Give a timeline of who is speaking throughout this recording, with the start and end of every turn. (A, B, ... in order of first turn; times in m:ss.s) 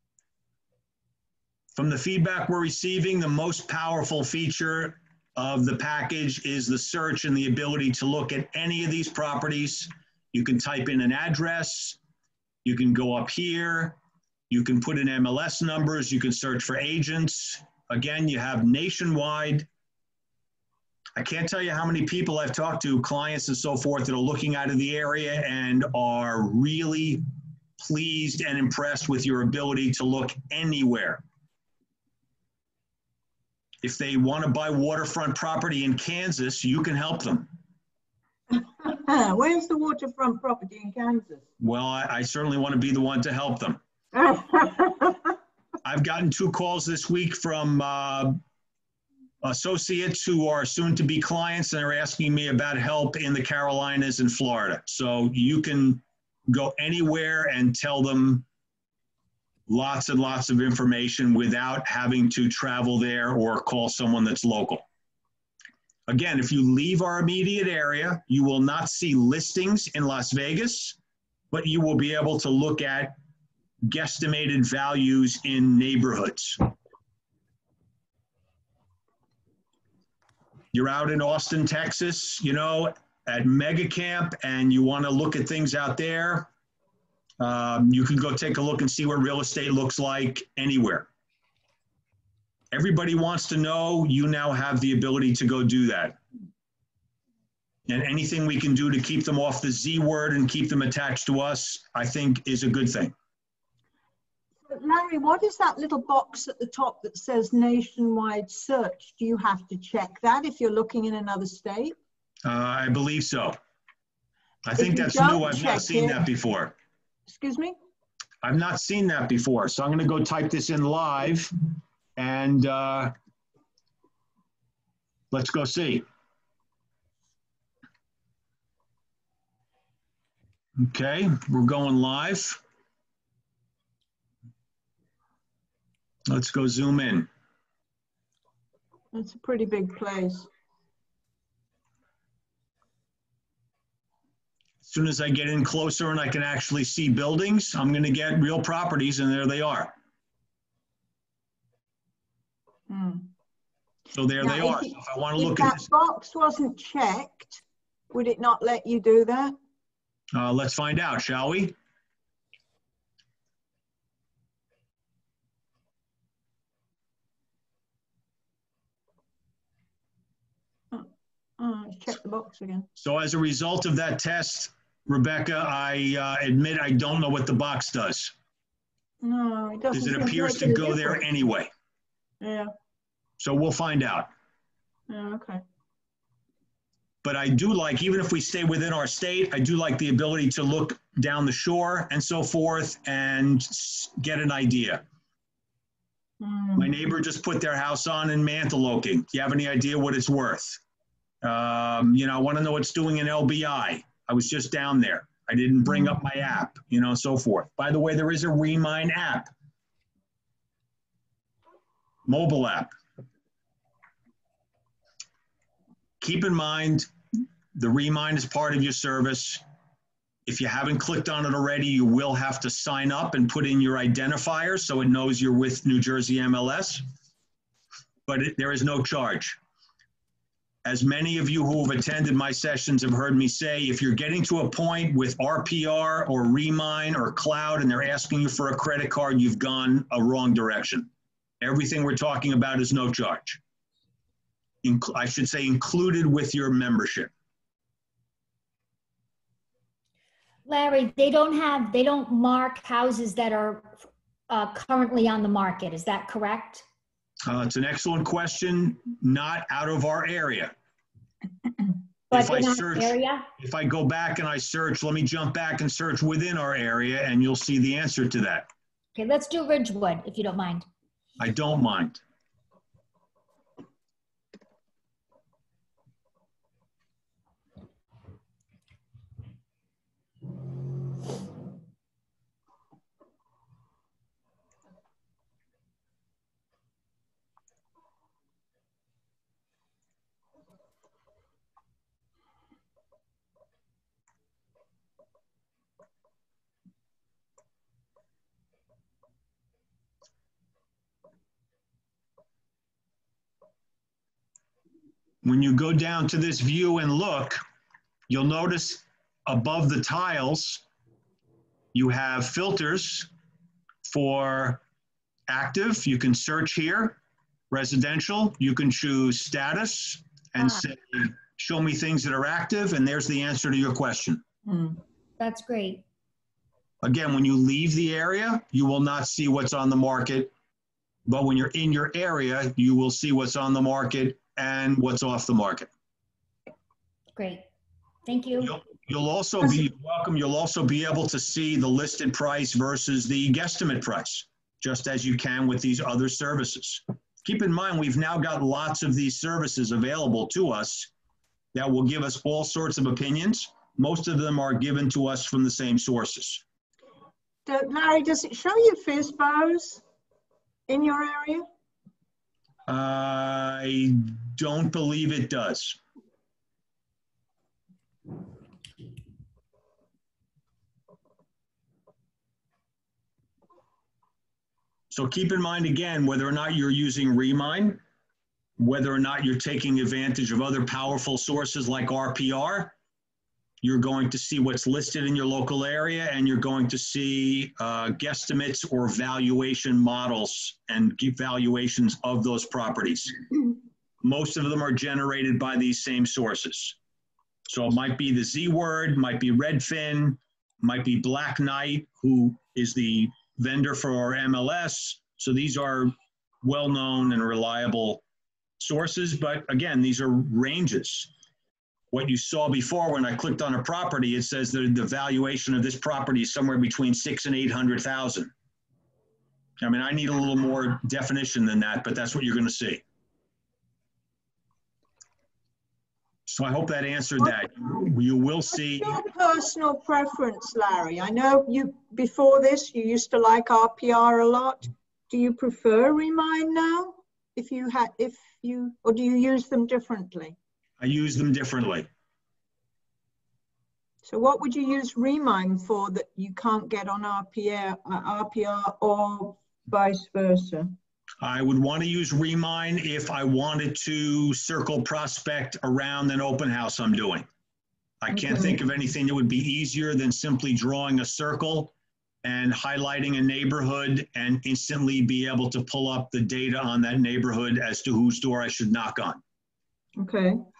0:01.7-0:12.0 A
0:12.6-0:14.0 A
0:14.5-0:19.7 A
0:21.2-0:27.2 A
0:27.8-0:31.2 A
0:33.8-0:37.5 A
0:38.5-0:41.4 B
0:41.6-0:43.8 A
0:44.1-0:45.3 B
0:45.8-0:48.4 A
0:49.4-0:58.4 A
0:59.7-1:04.8 A
1:06.1-1:11.0 A
1:11.5-1:13.2 A
1:13.8-1:16.6 A
1:20.7-1:26.5 A
1:27.4-1:31.1 A
1:32.7-1:36.2 A
1:37.9-1:43.1 A
1:44.6-1:52.0 B
1:52.4-1:53.6 A
1:54.6-1:56.7 A
1:54.8-1:56.2 B
1:57.3-1:57.7 B
1:58.4-2:01.5 A
2:02.2-2:03.1 A
2:05.3-2:06.0 A
2:10.8-2:12.6 A
2:16.2-2:17.3 A
2:19.1-2:20.5 B
2:24.8-2:29.9 A
2:32.9-2:33.3 B
2:34.1-2:35.8 A
2:34.4-2:39.6 B
2:40.3-2:41.7 A
2:50.9-2:52.9 B
2:53.0-2:58.3 A
2:59.2-3:01.2 B
2:59.9-3:01.7 A
3:02.4-3:02.7 B
3:03.4-3:04.3 A
3:05.1-3:05.6 B
3:07.2-3:15.0 A
3:16.4-3:16.9 B
3:16.8-3:20.8 A
3:21.4-3:29.5 A
3:32.2-3:32.9 A
3:36.2-3:37.1 A
3:37.7-3:39.6 A
3:40.4-3:47.0 A
3:48.3-3:49.6 A
3:50.8-4:01.1 A
4:01.6-4:03.6 A
4:04.8-4:07.3 A
4:10.6-4:16.8 C
4:17.5-4:20.7 A
4:22.3-4:23.5 C
4:22.3-4:28.7 A
4:29.2-4:30.8 C
4:31.4-4:32.2 A
5:05.4-5:07.6 A
5:08.3-5:10.8 A
5:11.9-5:13.3 A
5:14.0-5:14.8 A
5:15.5-5:17.2 A
5:17.7-5:24.4 A
5:24.6-5:25.0 B
5:25.4-5:26.0 C
5:27.0-5:30.5 A
5:31.3-5:35.9 A
5:37.4-5:37.7 C
5:38.2-5:38.7 C
5:38.6-5:51.1 A
5:51.7-5:56.6 A
5:57.6-6:00.0 B
6:00.9-6:01.6 B
6:02.9-6:06.0 A
6:15.1-6:18.0 A
6:18.8-6:22.9 A
6:23.8-6:33.4 A
6:34.2-6:37.0 A
6:37.7-6:48.2 A
6:48.8-6:51.3 A
6:52.1-6:58.5 A
6:59.8-7:03.0 A
7:06.5-7:09.2 A
7:08.9-7:20.5 B
7:21.0-7:22.1 A
7:24.2-7:31.0 B
7:31.4-7:37.5 A
7:38.2-7:41.9 A
7:38.3-7:38.8 B
7:42.4-7:49.4 A
7:50.2-7:50.6 B